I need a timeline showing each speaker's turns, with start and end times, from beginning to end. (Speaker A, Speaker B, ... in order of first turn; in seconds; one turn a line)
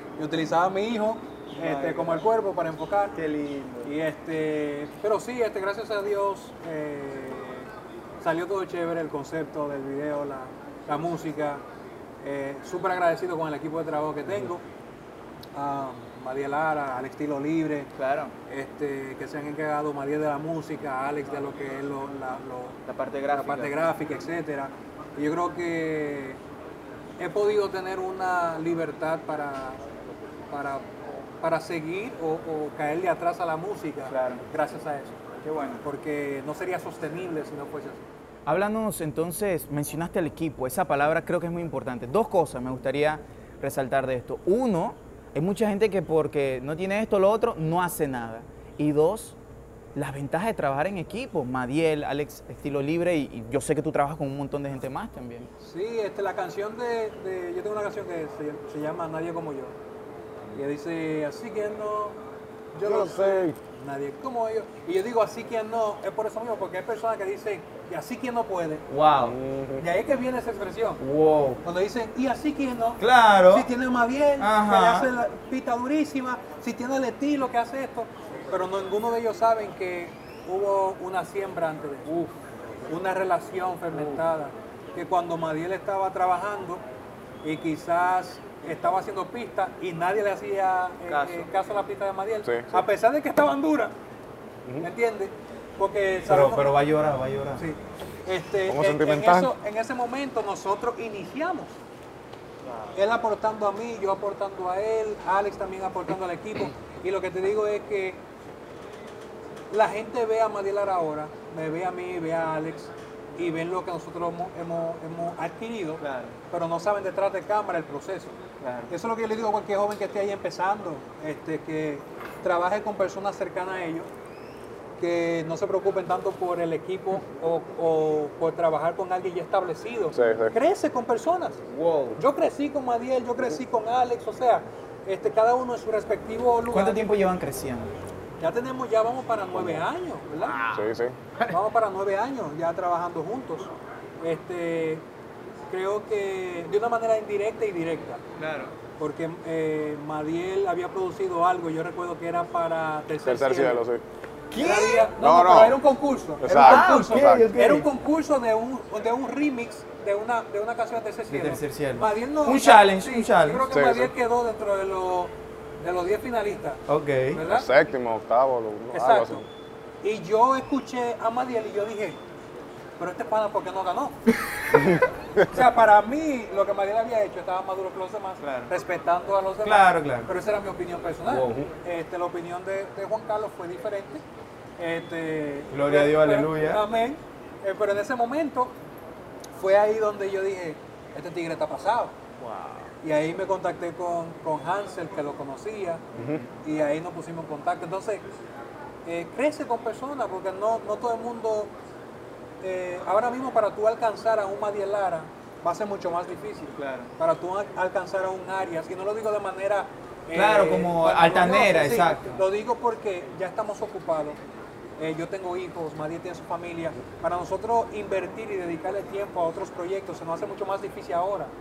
Speaker A: 0.2-3.2
Speaker B: 1.5-2.2
Speaker B: 3.1-3.9
Speaker A: 3.8-7.7
Speaker A: 8.2-11.6
Speaker A: 12.2-14.6
Speaker A: 15.5-17.9
Speaker B: 17.9-18.3
Speaker A: 18.5-22.8
Speaker B: 22.9-23.7
Speaker A: 23.3-26.4
Speaker A: 27.2-29.8
Speaker A: 30.5-35.2
Speaker B: 34.1-34.4
Speaker B: 35.4-35.8
Speaker A: 35.8-38.0
Speaker B: 38.5-49.4
Speaker B: 49.9-55.5
Speaker A: 55.6-59.7
Speaker A: 60.5-62.2
Speaker A: 62.7-68.8
Speaker C: 62.8-63.6
Speaker B: 68.9-69.3
Speaker C: 69.2-69.9
Speaker A: 69.8-71.0
Speaker B: 71.0-71.6
Speaker A: 71.6-82.3
Speaker B: 73.0-73.7
Speaker B: 74.4-75.1
Speaker A: 82.9-86.8
Speaker A: 87.4-93.9
Speaker B: 91.1-91.5
Speaker A: 94.8-96.7
Speaker B: 96.3-97.6
Speaker A: 97.6-101.7
Speaker C: 98.7-99.5
Speaker A: 102.9-108.2
Speaker A: 109.7-118.4
Speaker B: 116.0-116.3
Speaker B: 118.6-118.9
Speaker A: 118.9-124.1
Speaker A: 125.0-131.6
Speaker C: 130.1-130.5
Speaker B: 131.7-132.2
Speaker A: 132.2-137.0
Speaker B: 136.7-137.9
Speaker A: 138.4-140.6
Speaker B: 140.5-140.8
Speaker C: 140.7-141.2
Speaker A: 141.5-145.0
Speaker A: 145.7-148.2
Speaker B: 148.4-148.7
Speaker A: 149.0-153.8
Speaker C: 153.2-154.0
Speaker B: 154.5-155.1
Speaker A: 154.5-167.7
Speaker C: 155.1-155.8
Speaker C: 156.4-157.5
Speaker B: 156.5-157.9
Speaker B: 161.3-163.6
Speaker C: 163.7-164.1
Speaker B: 166.9-167.4
Speaker C: 167.4-169.5
Speaker A: 168.9-169.4
Speaker A: 170.0-172.2
Speaker A: 173.0-174.2
Speaker C: 174.7-175.5
Speaker A: 175.4-184.2
Speaker B: 178.4-178.7
Speaker B: 179.6-180.3
Speaker C: 181.2-181.7
Speaker A: 184.8-188.7
Speaker B: 185.7-186.8
Speaker A: 189.6-192.2
Speaker B: 192.4-192.9
Speaker A: 193.0-196.0
Speaker C: 196.1-196.4
Speaker A: 196.6-198.2
Speaker A: 199.0-201.7
Speaker A: 202.6-214.4
Speaker B: 206.8-207.1
Speaker B: 210.3-212.4
Speaker A: 215.0-221.5